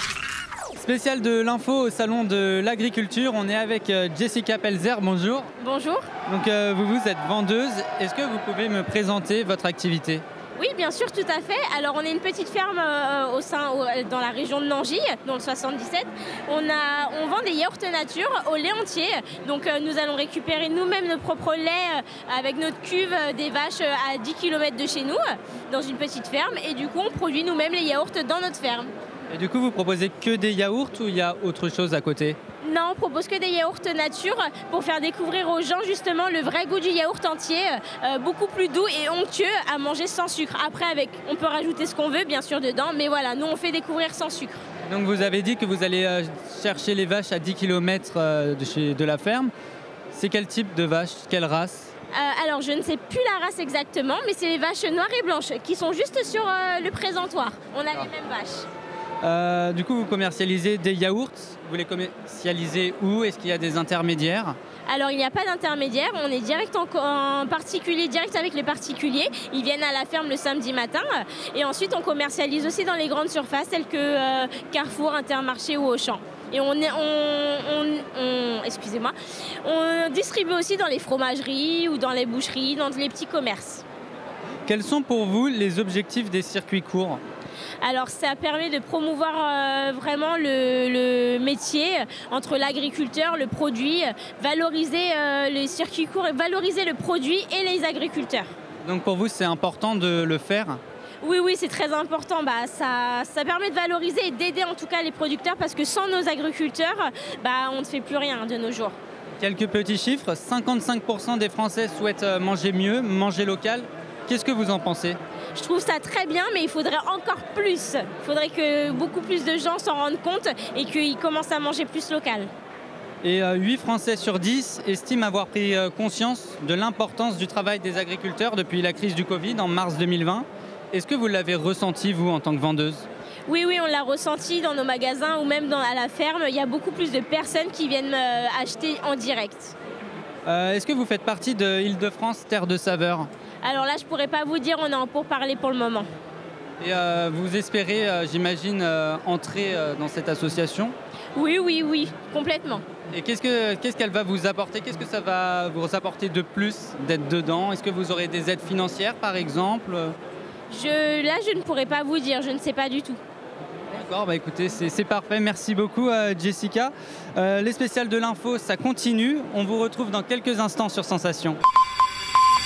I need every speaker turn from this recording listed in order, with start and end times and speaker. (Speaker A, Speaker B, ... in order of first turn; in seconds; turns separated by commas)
Speaker A: 0.8-5.5, Speaker B: 5.6-6.1, Speaker A: 6.3-10.2, Speaker B: 10.6-28.9, Speaker A: 29.3-32.4, Speaker B: 32.6-44.6, Speaker A: 44.9-49.5, Speaker A: 50.1-51.9, Speaker B: 52.1-58.7, Speaker A: 59.2-64.5, Speaker B: 64.9-83.8, Speaker A: 84.7-87.2, Speaker B: 87.8-98.5, Speaker A: 98.8-100.8, Speaker B: 101.2-108.9, Speaker A: 109.4-115.2, Speaker B: 115.5-122.5, Speaker A: 123.2-133.1, Speaker B: 133.5-139.8, Speaker A: 140.5-143.3, Speaker B: 143.6-146.1, Speaker A: 146.8-150.9, Speaker B: 151.4-152.8, Speaker A: 153.1-160.2, Speaker B: 160.7-163.2, Speaker A: 163.9-171.6